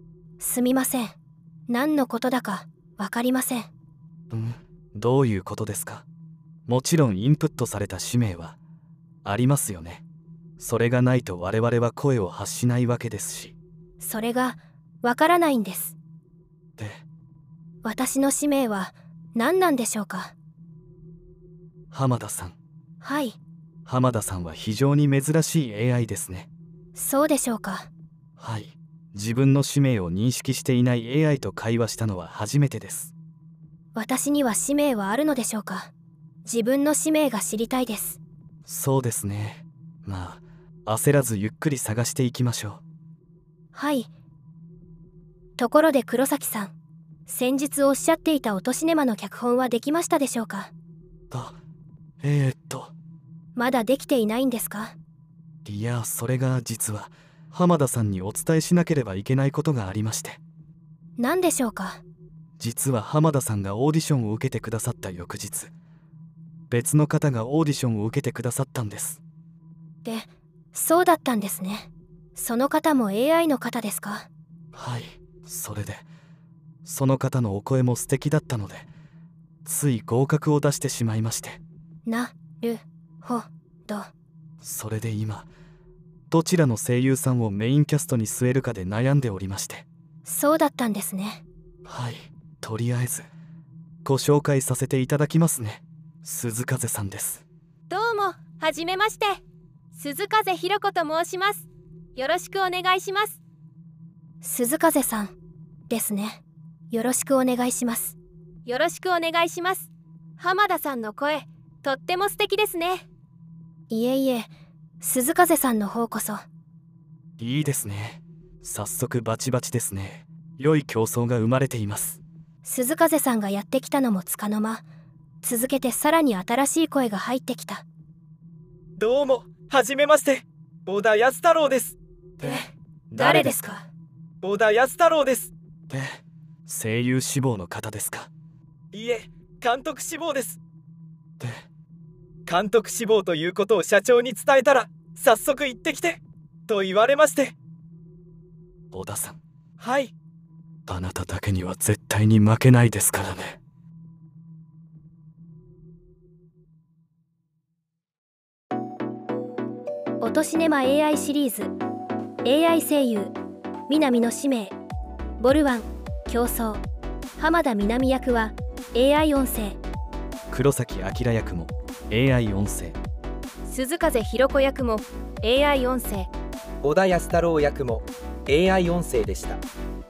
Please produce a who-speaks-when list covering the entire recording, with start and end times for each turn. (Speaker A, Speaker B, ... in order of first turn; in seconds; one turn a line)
Speaker A: 0.4-1.1
Speaker A: 1.7-3.7
Speaker B: 4.3-6.0
Speaker B: 6.7-8.6
Speaker B: 9.2-10.0
Speaker B: 10.6-13.5
Speaker A: 14.0-15.9
Speaker B: 16.8-17.0
Speaker A: 17.8-20.3
Speaker B: 21.9-22.6
Speaker A: 23.0-23.4
Speaker B: 23.9-26.5
Speaker A: 26.9-27.9
Speaker B: 28.4-33.1
Speaker A: 33.9-35.9
Speaker A: 36.4-38.2
Speaker B: 38.6-42.8
Speaker A: 43.7-44.1
Speaker A: 45.6-46.7
Speaker A: 47.2-50.7
Speaker B: 51.3-51.6
Speaker B: 52.2-52.9
Speaker A: 53.5-55.0
Speaker B: 55.6-60.4
Speaker A: 61.2-62.0
Speaker B: 62.6-65.7
Speaker B: 66.7-69.2
Speaker A: 70.0-74.3
Speaker B: 74.7-76.0
Speaker B: 76.8-78.9
Speaker B: 79.6-81.6
Speaker A: 82.0-84.1
Speaker B: 84.6-85.5
Speaker B: 86.3-89.8
Speaker A: 90.2-91.4
Speaker B: 91.8-93.3
Speaker B: 94.0-97.4
Speaker C: 97.9-99.4
Speaker C: 100.0-101.6
Speaker C: 102.2-103.4
Speaker A: 104.4-105.3
Speaker A: 105.9-108.2
Speaker C: 108.7-109.9
Speaker C: 110.4-113.0
Speaker A: 113.9-114.5
Speaker A: 115.0-116.4
Speaker B: 117.4-122.2
Speaker A: 122.6-124.8
Speaker A: 125.4-127.8
Speaker D: 129.0-132.0
Speaker B: 132.4-133.6
Speaker A: 132.4-133.9
Speaker D: 134.4-135.5
Speaker B: 135.9-138.3
Speaker D: 138.9-140.6
Speaker D: 142.5-147.5
Speaker B: 148.9-149.4
Speaker D: 149.8-150.1
Speaker B: 150.9-153.6
Speaker A: 160.2-161.7
Speaker A: 162.4-163.3
Speaker A: 163.9-164.7
Speaker A: 165.4-166.8
Speaker A: 167.4-169.8
Speaker B: 170.5-173.0
Speaker C: 173.7-176.3
Speaker D: 176.8-179.6